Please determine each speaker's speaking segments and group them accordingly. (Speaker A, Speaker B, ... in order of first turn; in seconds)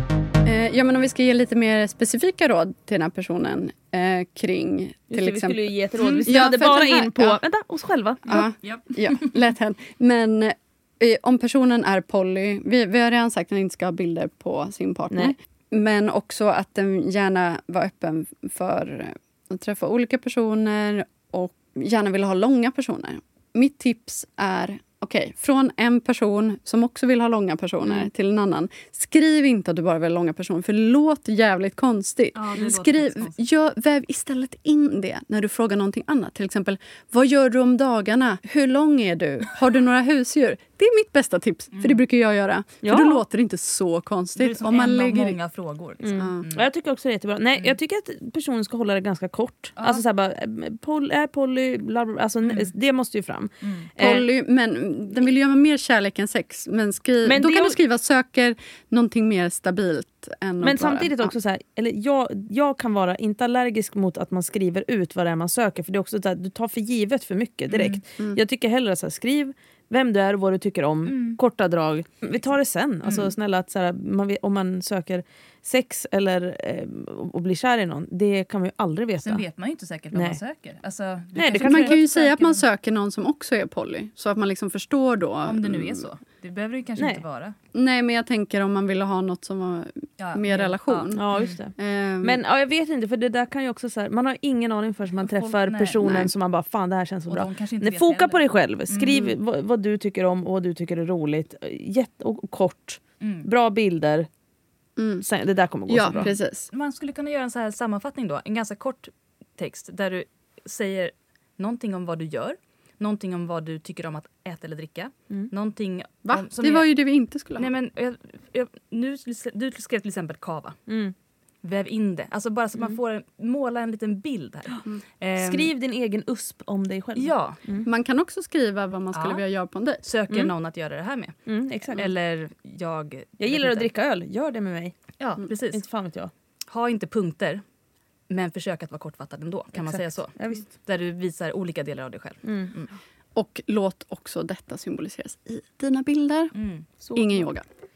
Speaker A: 0.4-7.4, 8.3-45.4, 46.1-46.4, 54.0-61.3, 81.5-86.1, 87.7-91.2, 91.8-92.4, 105.0-105.2, 105.9-106.7, 116.2-117.7, 127.8-130.0, 143.3-146.5, 147.1-147.6
Speaker B: 5.1-8.5, 15.1-15.3, 42.8-43.2, 46.0-54.3, 57.2-57.8, 60.6-79.4, 80.1-80.4, 81.3-82.0, 87.0-87.2, 91.1-104.3, 105.2-106.3, 120.9-121.1, 125.4-127.8, 131.5-132.1, 133.4-134.9, 135.7-136.3, 139.8-140.7, 142.4-142.7, 147.0-147.5
Speaker C: 8.6-9.3, 32.3-33.4, 41.7-42.0, 44.4-46.7, 49.8-50.0, 52.4-52.7, 53.6-53.9, 67.7-68.0, 71.0-71.4, 73.0-73.3, 79.2-82.6, 85.4-87.5, 90.2-91.6, 95.2-96.2, 97.3-99.3, 103.2-103.5, 106.1-116.9, 117.6-120.8, 121.6-125.7, 127.2-127.6, 129.1-129.4, 130.0-131.4, 131.9-133.9, 135.2-135.8, 136.7-137.6, 138.3-142.9, 146.5-146.9